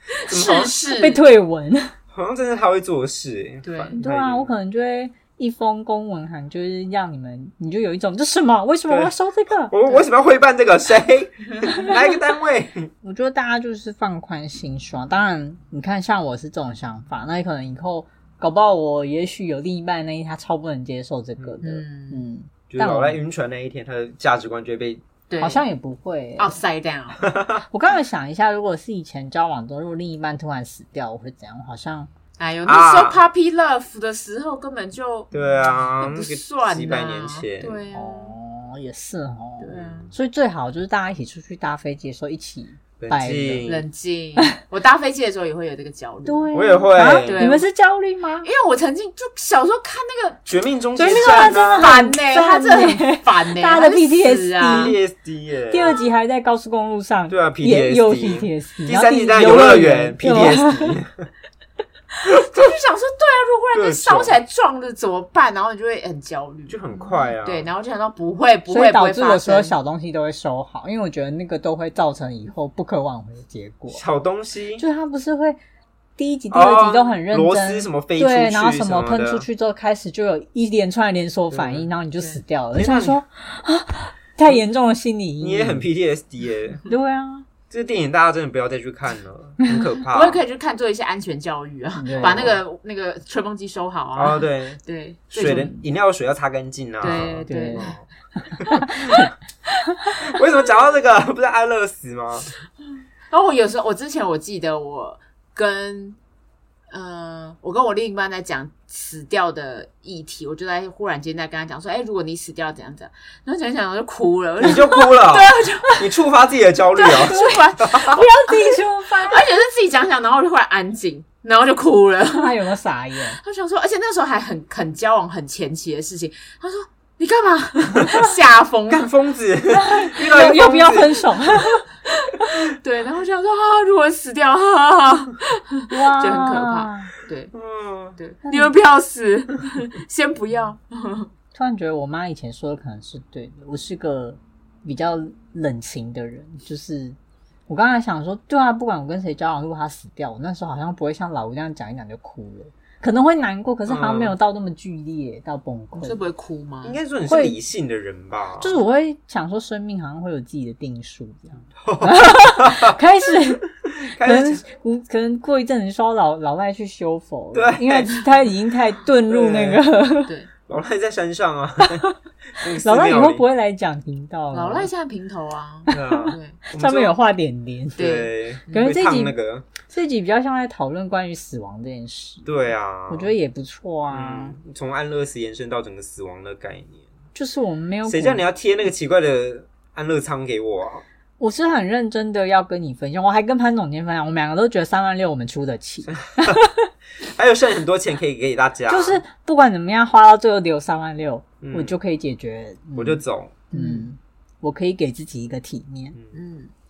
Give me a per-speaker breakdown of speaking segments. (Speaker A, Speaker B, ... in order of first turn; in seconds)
Speaker A: 0.2-1.2, 3.6-4.0, 21.6-22.2, 25.3-25.6, 26.4-27.3, 32.4-35.3, 36.0-38.4, 39.6-40.1, 43.7-46.5, 47.2-47.7, 48.4-50.4, 51.0-55.0, 62.3-66.8, 67.4-69.8, 90.1-95.8, 97.0-97.9, 103.3-106.2, 106.9-116.1, 117.0-122.6, 123.4-129.1, 132.2-137.5, 138.2-141.3, 155.9-157.0, 174.5-176.6, 178.0-178.9, 203.7-204.1, 206.3-206.7
Speaker B: 0.3-0.7, 2.1-4.5, 9.7-12.9, 22.7-25.0, 27.2-27.6, 32.6-33.2, 35.3-37.9, 39.7-40.1, 43.0-43.9, 46.5-47.5, 50.5-51.9, 54.6-56.0, 57.3-61.3, 63.7-64.4, 66.7-67.7, 73.9-74.8, 76.5-79.5, 81.5-81.9, 82.8-83.2, 85.4-86.8, 87.7-90.4, 92.2-92.6, 94.2-94.8, 95.3-98.0, 98.6-99.3, 100.2-102.5, 114.6-118.0, 128.9-131.4, 137.5-138.2, 153.9-154.3, 156.8-158.8, 161.8-163.0, 164.0-164.6, 167.5-168.3, 169.3-169.8, 170.7-173.4, 175.9-177.2, 178.0-179.7, 182.4-183.3, 184.1-187.1, 188.1-191.1, 196.1-196.6, 197.2-199.2, 201.6-201.9, 203.0-203.6
Speaker C: 0.5-1.9, 4.0-9.9, 13.0-23.2, 25.4-26.6, 27.6-32.1, 37.9-43.7, 46.3-48.5, 51.0-55.0, 55.7-61.0, 68.7-74.0, 74.8-75.6, 76.2-85.9, 86.9-87.5, 92.0-92.6, 97.5-99.3, 117.2-119.5, 122.3-123.4, 129.7-131.9, 135.9-137.1, 138.5-138.7, 141.5-147.2, 147.7-156.2, 157.2-157.6, 158.6-170.3, 171.8-172.2, 172.8-174.9, 175.9-178.1, 178.7-182.5, 183.1-184.6, 187.3-188.4, 191.4-196.7, 198.9-206.2